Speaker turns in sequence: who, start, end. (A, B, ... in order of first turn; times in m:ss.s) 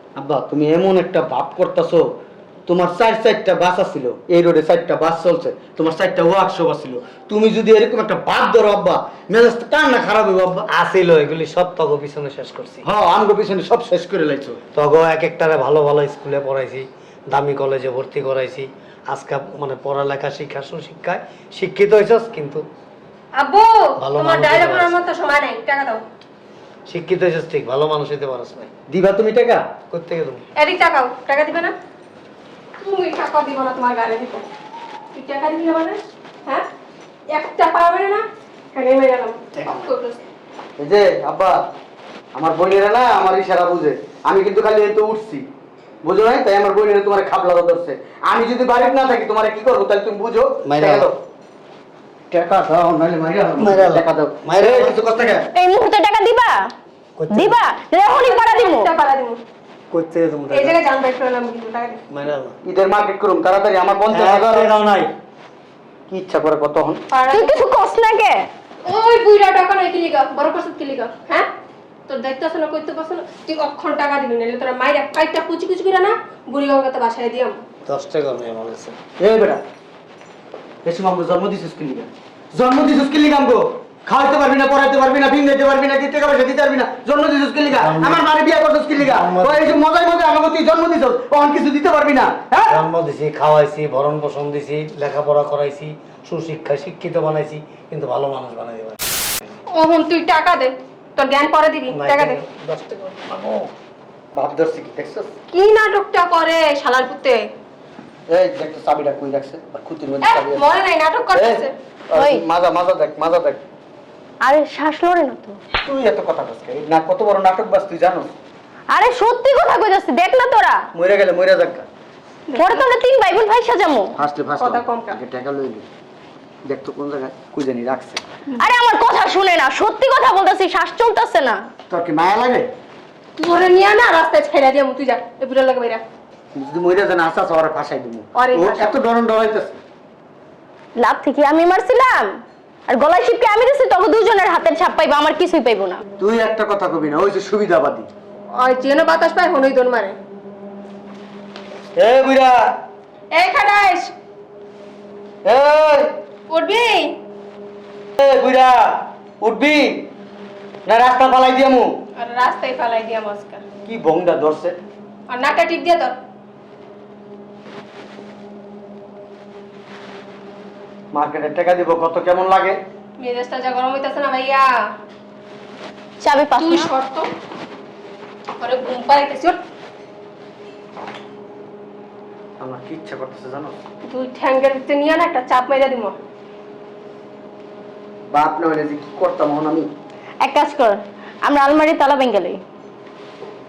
0:00.2-0:02.1 A
0:02.7-0:10.6 A
0:10.7-0:12.8 B
0:12.8-0:14.6 A
0:14.7-0:22.6 B
0:23.4-0:26.0 C
0:24.0-0:25.0 B
0:26.9-0:28.7 B
0:28.9-0:29.6 A
0:29.9-0:30.4 B
0:30.6-0:31.7 C
0:32.8-0:34.5 C
0:35.1-0:36.6 C
0:37.3-0:40.2 C
0:40.8-0:41.6 A
0:42.3-0:45.4 A
0:46.0-0:51.1 A
0:50.6-0:51.1 B
0:52.3-0:55.4 A
0:53.6-0:55.3 B
0:55.5-0:56.7 D
0:57.2-0:57.6 B
0:57.3-0:58.9 D
0:58.1-0:59.4 C
0:59.9-1:00.8 B
1:00.5-1:02.0 C
1:02.1-1:02.6 B
1:02.6-1:04.7 A
1:04.1-1:05.1 B
1:06.1-1:07.0 A
1:07.1-1:07.7 C
1:07.3-1:08.5 D
1:08.8-1:11.5 C
1:12.1-1:17.6 C
1:17.8-1:19.0 B
1:19.2-1:19.6 A
1:20.8-1:32.8 A
1:27.7-1:28.2 B
1:29.0-1:29.8 B
1:32.7-1:39.0 B
1:39.7-1:42.4 C
1:41.9-1:43.7 B
1:44.3-1:45.3 A
1:45.5-1:47.5 C
1:48.3-1:50.7 A
1:50.2-1:51.7 C
1:51.3-1:53.6 A
1:52.1-1:52.4 D
1:54.4-1:55.6 D
1:55.8-1:58.3 A
1:58.9-2:00.8 D
2:00.9-2:01.8 A
2:02.5-2:02.9 C
2:02.6-2:04.2 D
2:04.2-2:05.8 A
2:04.6-2:05.2 C
2:06.6-2:08.2 A
2:08.6-2:11.6 D
2:11.9-2:12.7 A
2:13.4-2:16.0 C
2:16.5-2:19.8 A
2:18.3-2:19.0 C
2:21.0-2:22.3 D
2:22.9-2:26.0 D
2:26.2-2:28.1 A
2:28.6-2:30.2 C
2:31.9-2:32.6 A
2:33.3-2:34.1 C
2:35.4-2:36.1 A
2:36.5-2:37.2 C
2:38.2-2:40.1 A
2:40.8-2:41.9 A
2:42.2-2:43.6 C
2:43.8-2:44.8 A
2:45.3-2:46.2 C
2:51.1-2:52.8 A
2:53.2-2:54.7 C
2:56.2-2:56.9 D
2:56.6-2:57.3 C
2:58.6-2:59.6 C
3:02.6-3:03.8 A
3:04.1-3:06.2 C
3:08.3-3:09.9 A
3:10.4-3:12.6 D